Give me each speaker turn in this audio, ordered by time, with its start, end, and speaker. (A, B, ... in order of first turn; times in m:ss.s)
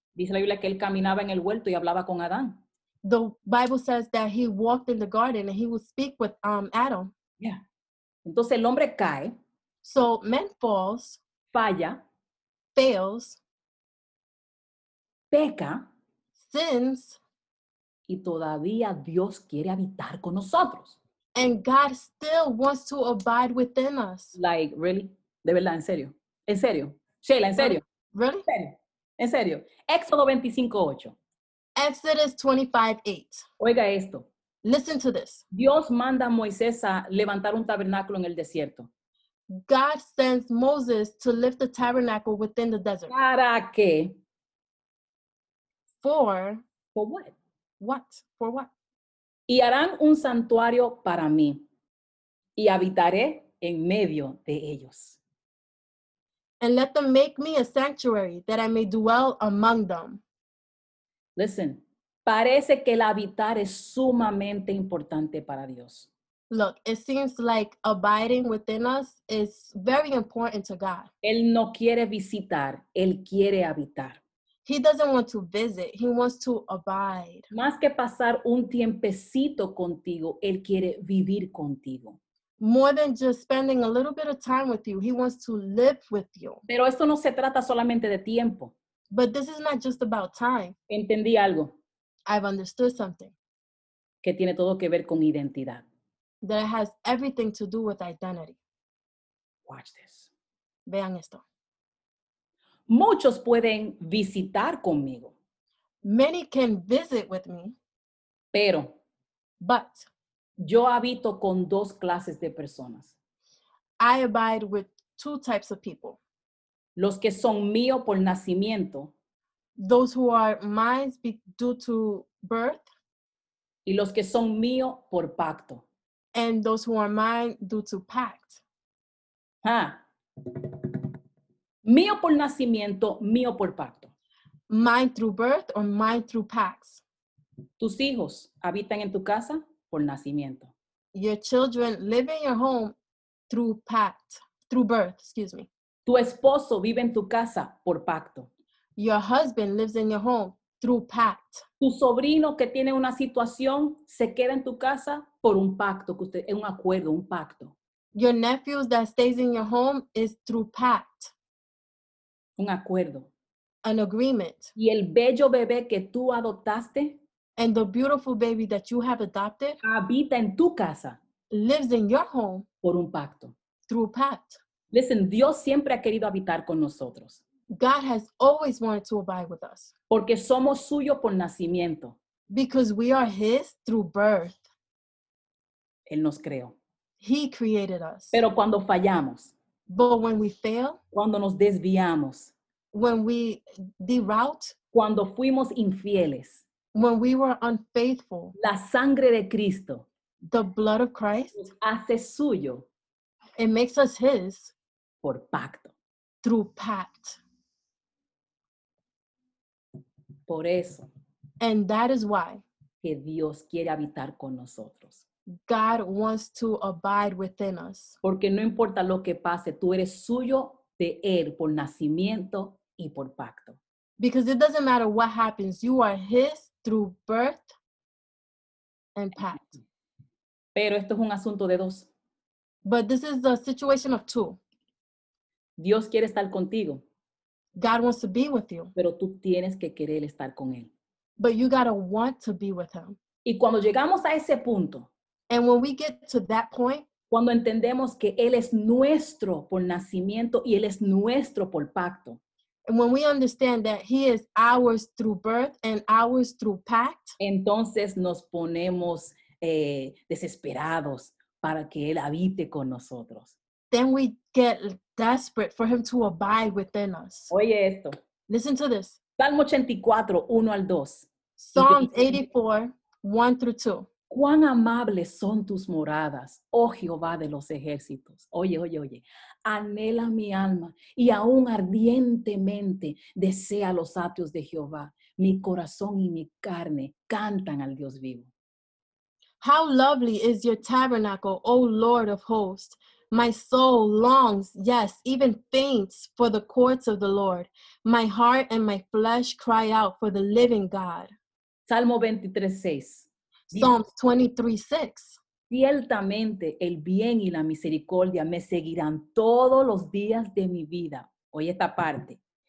0:00.2-0:02.6 A
0:03.0-0:07.1 B
0:08.2-0:09.4 A
0:09.8-0:11.2 B
0:11.5-0:12.0 A
0:12.8-0:13.4 B
0:15.3-0:15.9 A
0:16.4-0:17.2 B
0:18.1-0:21.0 A
0:21.4-0:24.4 B
0:24.4-0:27.8 A
0:27.6-0:28.4 B
0:28.5-0:31.2 A
0:31.8-0:33.4 B
0:33.6-0:34.3 A
0:34.6-0:35.4 B
0:35.5-0:38.9 A
0:39.5-0:43.1 B
0:43.1-0:44.2 A
0:46.0-0:46.6 B
0:47.0-0:47.4 A
0:47.8-0:48.7 B
0:49.5-0:51.6 A
0:52.6-0:55.2 A
0:56.6-1:00.2 B
1:01.4-1:06.1 A
1:06.5-1:11.1 B
1:11.2-1:14.2 A
1:14.7-1:17.5 B
1:17.5-1:22.2 A
1:22.6-1:26.6 B
1:26.7-1:28.8 A
1:29.1-1:30.8 B
1:30.9-1:31.8 A
1:32.3-1:33.3 B
1:34.2-1:35.8 A
1:36.4-1:38.6 B
1:39.7-1:40.3 A
1:40.9-1:41.4 B
1:42.9-1:45.4 A
1:46.0-1:47.8 B
1:48.5-1:49.0 A
1:49.6-1:50.1 B
1:50.6-1:53.2 A
1:54.0-1:56.2 B
1:57.0-1:59.1 A
1:59.8-2:02.9 B
2:03.9-2:05.8 A
2:06.3-2:08.6 B
2:09.6-2:10.0 A
2:11.8-2:14.1 A
2:14.7-2:17.0 B
2:17.8-2:20.7 A
2:21.1-2:23.0 B
2:23.5-2:25.7 B
2:26.1-2:28.5 A
2:29.0-2:31.6 B
2:31.8-2:37.8 A
2:38.1-2:41.3 B
2:42.6-2:43.3 A
2:43.8-2:44.7 B
2:44.8-2:47.2 A
2:47.6-2:49.8 B
2:49.8-2:51.2 A
2:51.5-2:52.7 B
2:52.8-2:53.5 A
2:53.9-2:54.6 B
2:54.9-2:57.4 A
2:57.7-2:59.9 B
3:00.1-3:02.2 A
3:02.5-3:04.6 B
3:06.1-3:06.8 A
3:07.2-3:08.4 B
3:08.3-3:09.5 A
3:09.9-3:11.0 B
3:11.1-3:12.5 A
3:12.9-3:14.8 B
3:14.9-3:16.6 A
3:16.9-3:18.6 B
3:18.6-3:20.1 A
3:20.4-3:21.6 B
3:21.6-3:22.9 A
3:23.6-3:24.7 B
3:25.2-3:25.9 A
3:26.4-3:27.4 B
3:30.5-3:31.1 A
3:31.6-3:32.6 B
3:33.0-3:35.2 A
3:35.6-3:38.2 B
3:38.2-3:43.8 A
3:44.2-3:47.7 B
3:49.2-3:49.8 B
3:50.8-3:52.1 A
3:52.8-3:54.6 B
3:55.8-3:57.0 A
3:57.8-3:58.9 B
3:59.0-4:00.9 A
4:01.4-4:03.2 B
4:03.4-4:05.1 A
4:05.5-4:07.1 B
4:07.3-4:12.4 A
4:12.9-4:17.4 B
4:17.4-4:23.6 A
4:23.9-4:27.5 B
4:27.5-4:28.1 A
4:28.5-4:29.2 B
4:29.4-4:32.4 A
4:31.6-4:34.1 B
4:34.3-4:48.5 A
4:49.6-5:01.3 B
5:01.9-5:03.9 A
5:03.7-5:05.4 B
5:05.7-5:12.4 A